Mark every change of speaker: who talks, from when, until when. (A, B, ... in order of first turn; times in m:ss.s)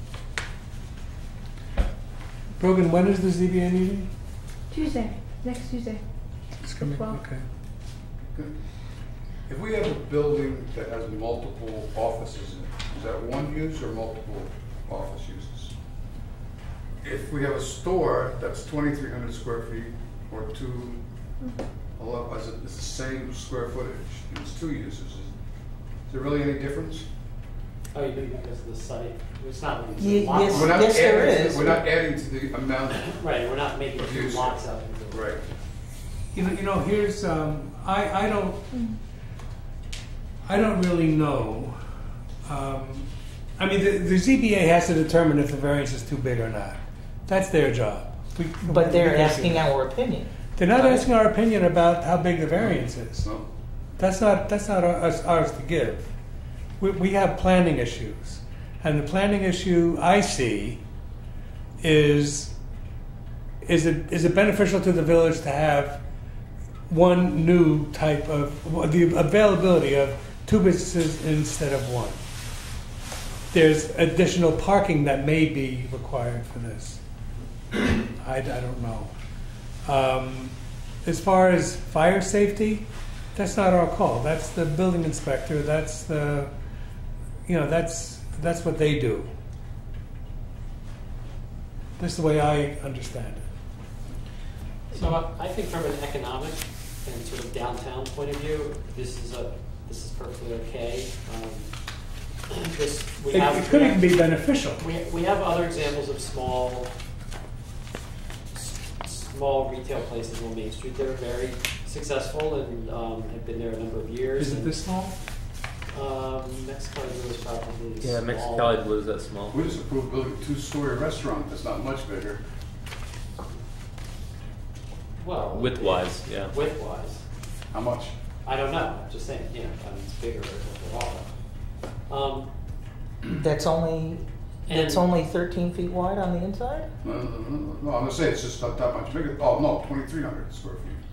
0:02.6-0:04.1 A
0:04.7-0:06.0 B
0:06.6-0:07.4 A
0:06.8-0:07.2 B
0:09.5-0:15.7 C
0:17.0-0:21.0 C
0:22.0-0:25.3 C
0:26.1-0:27.1 C
0:27.9-0:31.2 D
0:30.0-0:31.8 E
0:30.4-0:33.1 C
0:32.9-0:35.5 D
0:34.0-0:35.4 C
0:36.3-0:38.6 A
0:38.7-0:39.0 B
0:40.4-0:41.8 A
0:42.4-0:49.7 A
0:48.7-0:50.3 E
0:50.6-0:53.3 A
0:52.6-0:53.5 C
0:54.0-0:56.1 A
0:56.8-1:00.8 A
1:01.8-1:02.6 A
1:03.6-1:06.0 A
1:06.9-1:12.2 A
1:13.5-1:17.0 A
1:18.1-1:19.1 A
1:19.8-1:26.5 A
1:27.5-1:29.3 A
1:32.0-1:33.4 A
1:34.9-1:41.7 D
1:42.5-1:46.9 D
1:43.3-1:44.8 A
1:48.5-1:54.8 D
1:54.4-1:55.2 A
1:55.9-1:58.9 D
1:58.0-1:59.7 F
1:59.5-2:02.4 C
2:05.2-2:07.2 D
2:05.5-2:06.6 F
2:07.7-2:08.1 C
2:08.4-2:11.3 D
2:12.1-2:12.5 D
2:13.3-2:16.9 E
2:14.7-2:15.1 D
2:17.0-2:21.0 C